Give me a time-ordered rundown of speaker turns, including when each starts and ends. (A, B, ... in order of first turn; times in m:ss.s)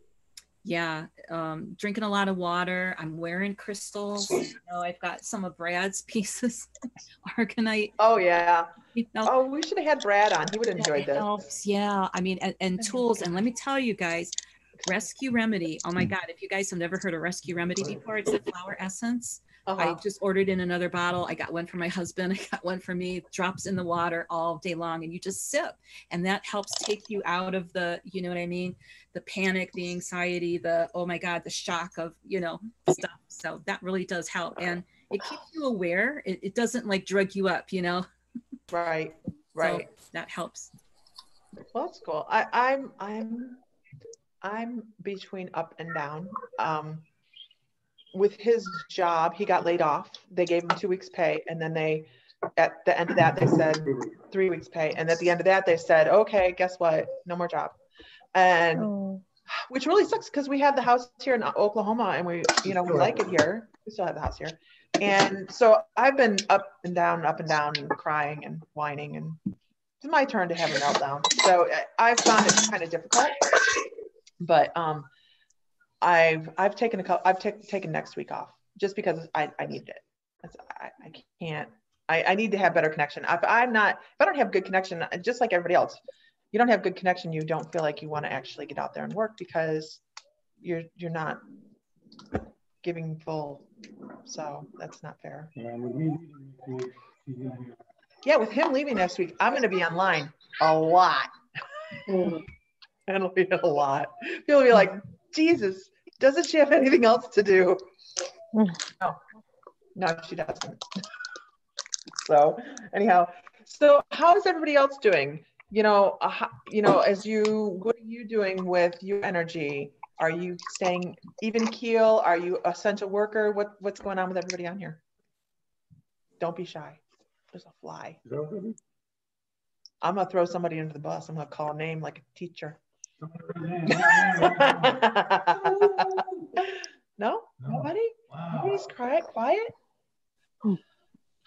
0:00.6-0:06.7 A
0:07.2-0:07.9 A
0:08.0-0:08.7 B
0:08.9-0:09.3 A
0:09.2-0:11.4 B
0:11.0-0:14.3 A
0:14.8-0:38.0 A
0:19.6-0:20.0 B
0:38.7-0:39.8 B
0:39.6-0:40.7 A
0:41.7-0:43.6 B
0:44.4-0:47.0 B
0:48.1-0:57.8 B
0:58.3-0:58.9 B
0:59.5-1:09.4 B
1:10.0-1:13.5 B
1:14.4-1:15.1 B
1:16.0-1:26.0 B
1:26.5-1:30.0 B
1:30.6-1:31.4 B
1:32.8-1:33.6 B
1:34.2-1:35.5 B
1:35.5-1:37.8 C
1:38.2-1:41.3 B
1:43.1-1:47.8 B
1:50.0-1:50.8 B
1:52.2-2:05.0 B
2:06.4-2:07.0 B
2:07.5-2:08.2 B
2:08.2-2:08.8 C
2:10.0-2:12.8 B
2:13.2-2:16.5 C
2:13.9-2:16.0 B
2:16.6-2:19.7 B
2:17.6-2:18.8 C